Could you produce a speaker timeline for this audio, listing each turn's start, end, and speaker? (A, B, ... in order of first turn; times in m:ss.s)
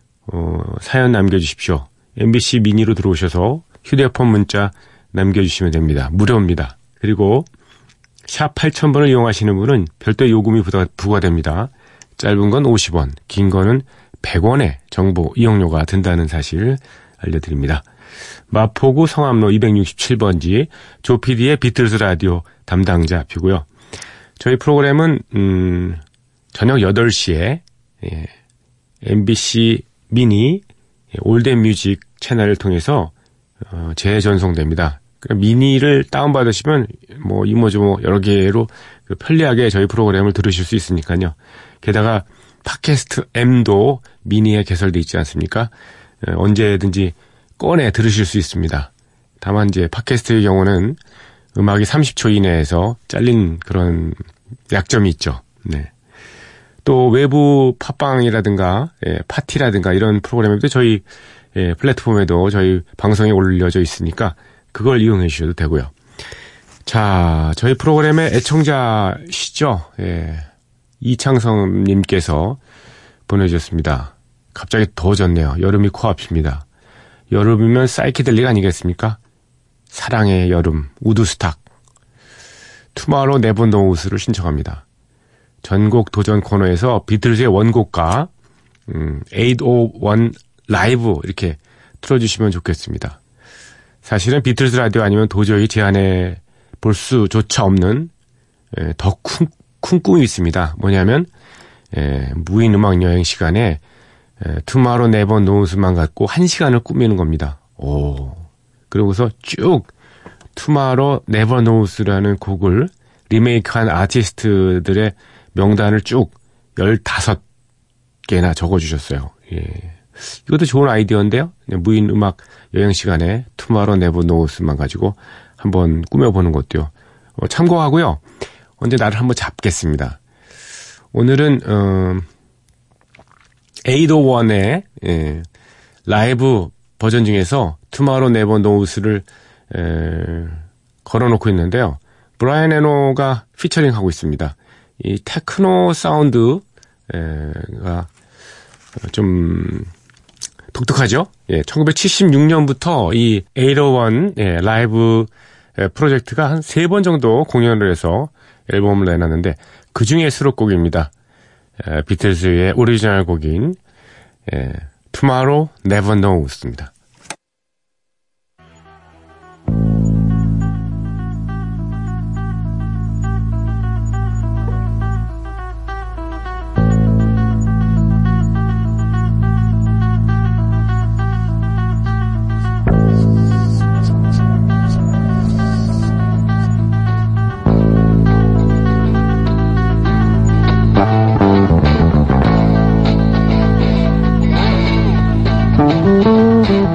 0:00.3-0:07.5 A
0:08.3-0:17.8 A
0:18.5-0:23.7 A
0:24.4-0:26.0 A
0:26.5-0:28.3 A
0:29.0-0:33.1 A
0:33.7-0:45.7 A
0:46.2-0:48.9 A
0:49.4-0:51.0 A
0:51.6-0:54.2 A
0:54.7-0:55.9 A
0:56.8-1:01.0 A
1:01.6-1:05.9 A
1:06.9-1:10.5 A
1:11.0-1:12.6 A
1:13.3-1:16.6 A
1:17.3-1:19.2 A
1:19.9-1:21.6 A
1:23.0-1:24.8 A
1:25.6-1:28.3 A
1:28.9-1:33.2 A
1:34.0-1:38.1 A
1:38.7-1:41.3 A
1:41.9-1:43.8 A
1:44.4-1:49.9 A
1:50.6-1:57.4 A
1:58.3-2:08.2 A
2:08.8-2:10.2 A
2:11.1-2:12.3 A
2:13.9-2:15.5 A
2:16.1-2:28.1 A
2:29.0-2:29.9 A
2:30.7-2:41.1 A
2:41.8-2:43.8 A
2:44.5-2:46.9 A